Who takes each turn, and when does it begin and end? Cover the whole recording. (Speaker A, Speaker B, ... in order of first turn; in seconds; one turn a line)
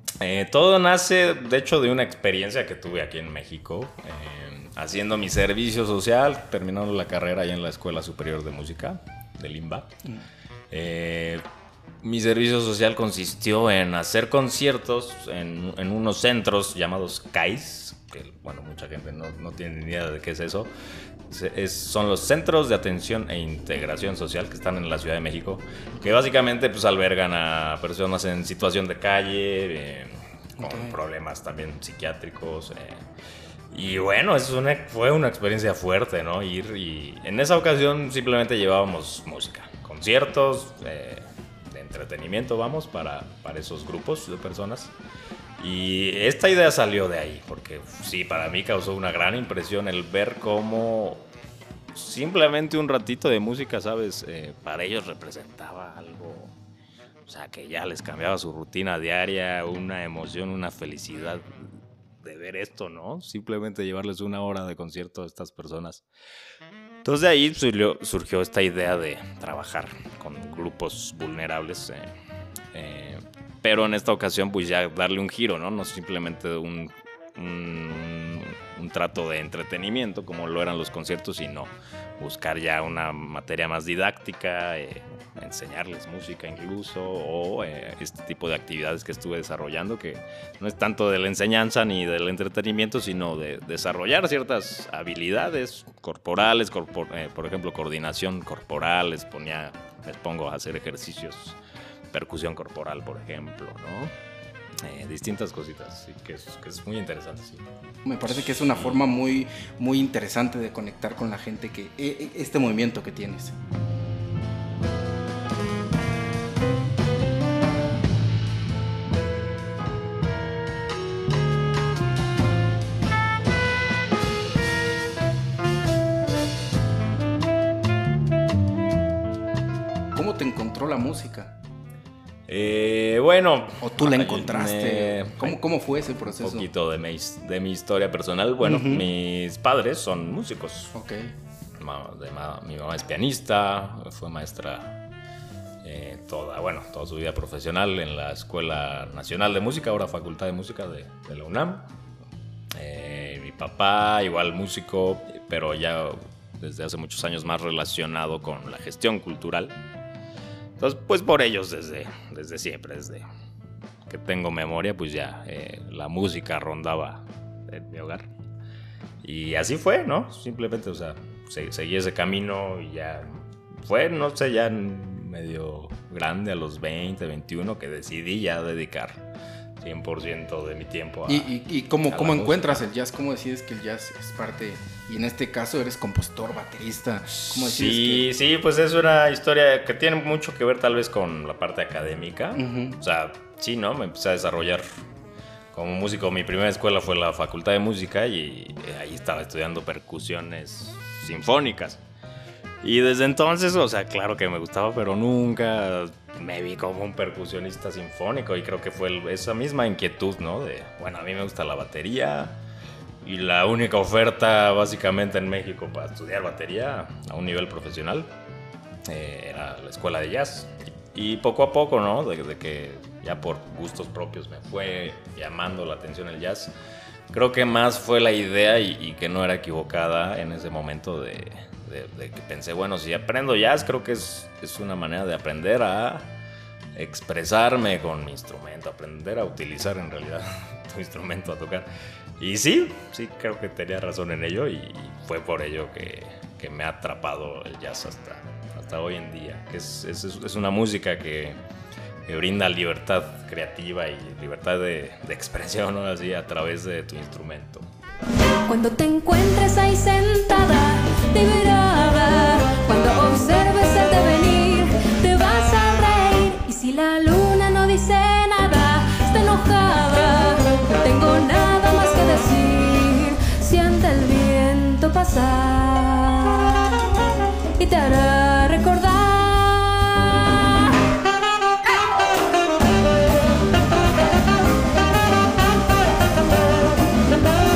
Speaker A: 0.2-9.9
Speaker A: 10.7-11.4
Speaker A: 12.0-20.7
Speaker A: 21.3-33.0
Speaker B: 30.6-31.0
Speaker A: 33.7-45.0
Speaker A: 45.6-51.3
Speaker A: 51.9-56.6
Speaker A: 57.2-66.0
Speaker A: 67.0-72.1
Speaker A: 72.7-101.6
Speaker A: 102.1-104.1
Speaker A: 104.8-107.7
Speaker B: 108.0-113.5
Speaker A: 108.3-109.0
Speaker B: 130.2-131.6
Speaker A: 132.5-135.6
Speaker B: 133.8-136.7
Speaker A: 136.3-140.9
Speaker B: 138.6-139.1
Speaker B: 140.9-141.3
Speaker A: 141.8-145.0
Speaker A: 145.8-151.9
Speaker A: 152.8-159.8
Speaker A: 160.8-163.2
Speaker A: 164.1-168.3
Speaker A: 169.2-179.2
Speaker A: 179.8-181.5
Speaker B: 181.3-188.3
Speaker A: 182.1-182.9
Speaker A: 187.4-194.8
Speaker B: 192.6-193.0
Speaker A: 195.7-202.0
Speaker A: 202.8-212.6
Speaker A: 213.2-218.3
Speaker A: 219.1-226.7
Speaker A: 227.3-236.3
Speaker A: 236.9-251.6
Speaker A: 252.3-257.9
Speaker C: 258.7-277.1
Speaker C: 277.8-281.2